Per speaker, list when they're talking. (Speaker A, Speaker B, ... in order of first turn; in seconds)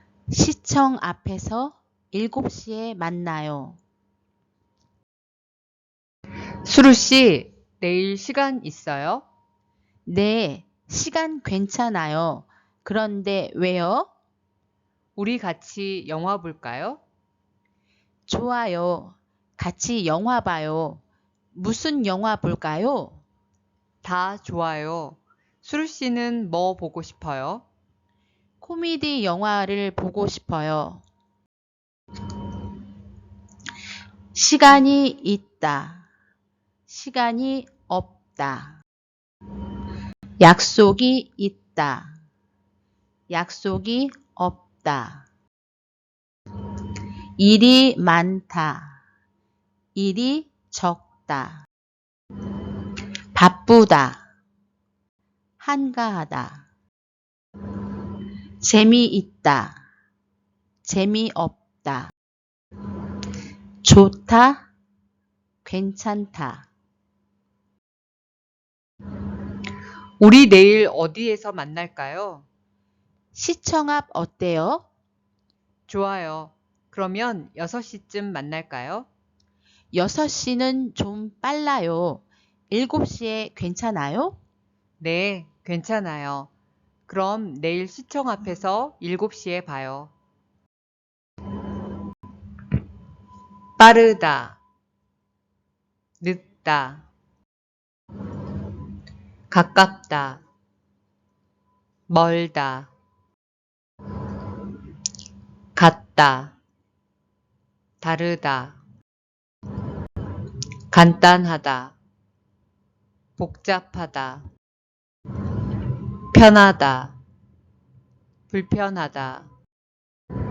Speaker A: 0.3-3.8, 10.1-14.1, 18.3-21.0, 21.5-23.2, 28.6-31.0, 34.3-36.0, 36.9-38.8, 40.4-42.1, 43.3-45.2, 47.4-49.0, 49.9-51.6, 53.3-54.2, 55.6-56.6, 58.6-59.8, 60.8-62.1, 63.8-64.6, 65.6-66.7, 73.3-74.8, 79.9-84.4
Speaker B: 6.6-9.2, 15.2-17.0, 24.0-27.6, 70.2-72.5, 75.9-79.1, 85.0-86.5, 87.1-90.1, 93.8-94.6, 96.2-97.0, 99.5-100.4, 102.1-102.9, 105.7-106.5, 108.0-108.8, 110.9-111.9, 113.4-114.4, 116.3-117.1, 118.5-119.5